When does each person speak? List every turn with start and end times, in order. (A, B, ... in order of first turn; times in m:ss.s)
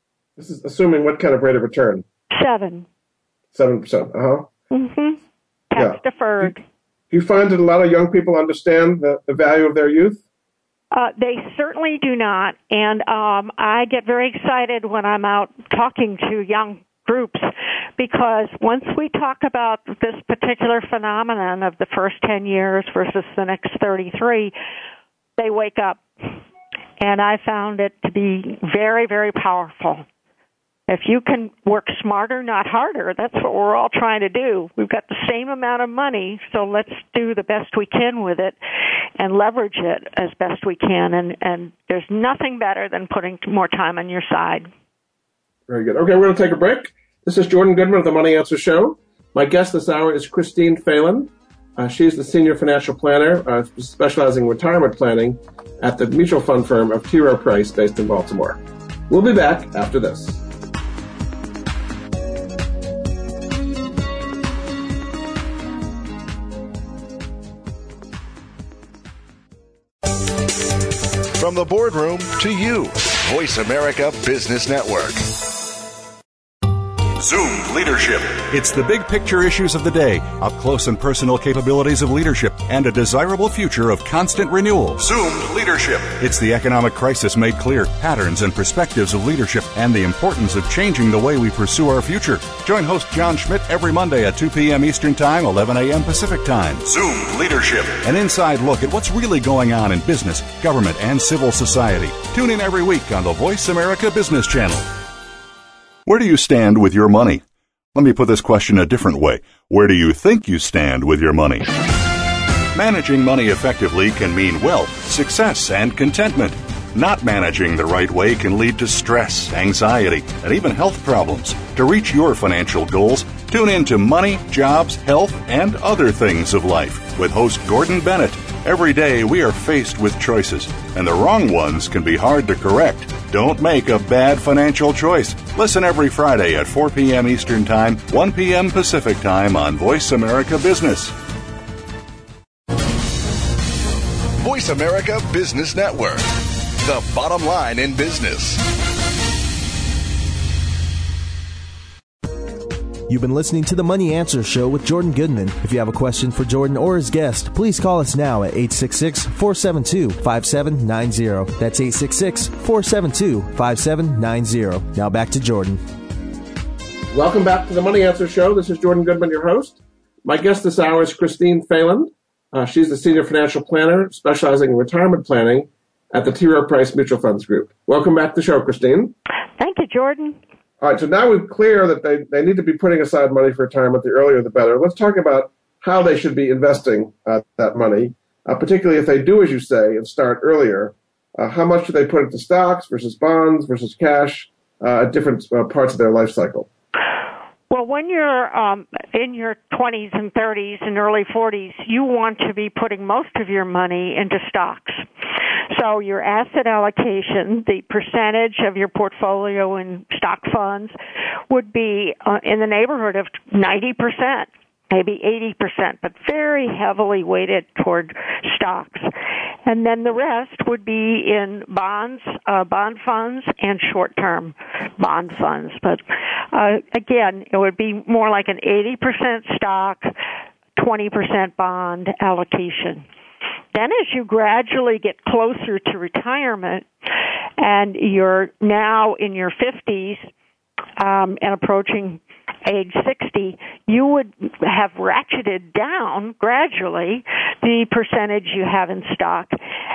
0:00.4-0:02.0 A
0:02.3-0:02.9 B
0:03.5-0:04.5 A
0:04.7-0:05.2 B
0:05.7-0:06.6 B
0:05.8-0:06.5 A
0:07.1-0:10.2 A
0:10.9-0:24.5 B
0:25.4-0:26.4 B
0:27.0-0:30.0 B
0:30.9-0:38.6 B
0:39.2-0:44.7 B
0:45.7-1:00.4 A
1:11.4-1:15.3 C
1:17.2-1:44.9 D
1:46.1-1:47.4 D
1:47.9-1:51.7 D
1:52.7-2:21.2 D
2:24.4-2:28.6 C
2:33.1-2:45.8 E
2:47.1-2:59.2 A
2:59.6-3:00.4 B
3:00.8-3:16.7 A
3:17.7-3:25.0 B
3:25.7-3:31.0 B
3:31.5-3:39.1 B
3:39.6-3:50.1 B
3:50.8-3:53.0 B
3:53.7-3:56.9 B
3:57.6-4:00.3 B
4:01.0-4:09.6 B